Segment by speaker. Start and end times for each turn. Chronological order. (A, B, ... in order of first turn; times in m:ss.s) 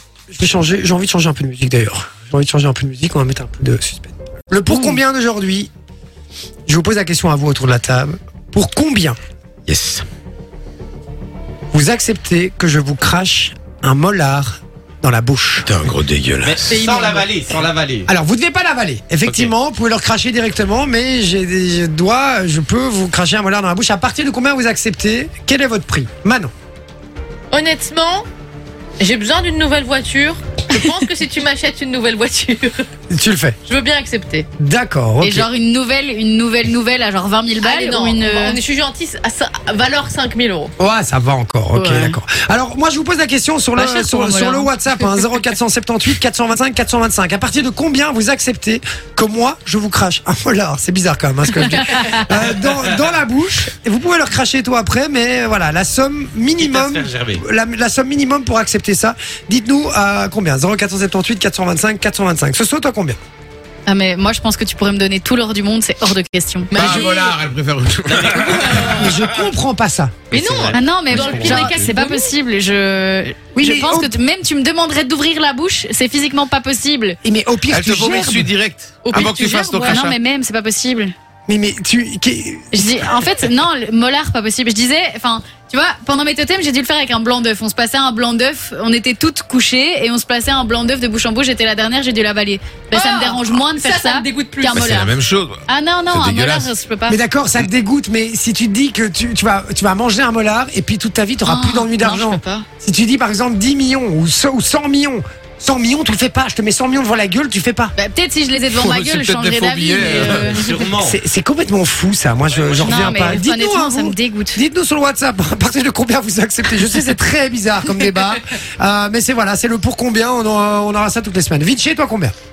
0:00.3-0:05.7 A
0:06.7-0:09.2 A
0:09.7-0:10.0 B
0:11.7-0:15.7 A
0:15.6-0:16.8 B
0:16.4-0:18.1 C
0:16.7-0:17.4 D
0:18.1-0:26.5 A
0:19.2-0:19.5 C
0:27.5-0:28.3 D
0:29.0-0:32.8 D
0:33.1-0:33.6 A
0:33.6-0:34.5 D
0:34.6-0:35.5 A
0:35.2-0:38.6 E
0:37.6-0:40.7 D
0:40.8-1:03.2 A
0:41.7-0:42.2 E
0:43.7-0:44.7 E
0:56.6-0:57.4 C
1:03.9-1:06.9 E
1:06.7-1:07.4 D
1:06.7-1:09.2 B
1:08.1-1:09.2 C
1:09.0-1:10.3 A
1:10.3-1:12.3 D
1:10.3-1:11.9 C
1:10.7-1:17.2 E
1:11.1-1:11.9 B
1:13.5-1:14.2 A
1:17.2-1:18.5 A
1:17.7-1:20.2 B
1:19.0-1:20.1 D
1:19.9-1:21.1 E
1:21.5-1:23.3 A
1:22.7-1:35.2 E
1:32.9-1:34.8 D
1:34.7-1:36.7 B
1:35.7-1:37.2 E
1:37.1-1:47.9 A
1:41.4-1:42.7 E
1:48.0-1:50.9 E
1:48.7-1:50.6 B
1:50.0-1:51.2 C
1:51.0-2:02.3 A
1:52.5-1:53.4 C
1:52.8-1:54.6 E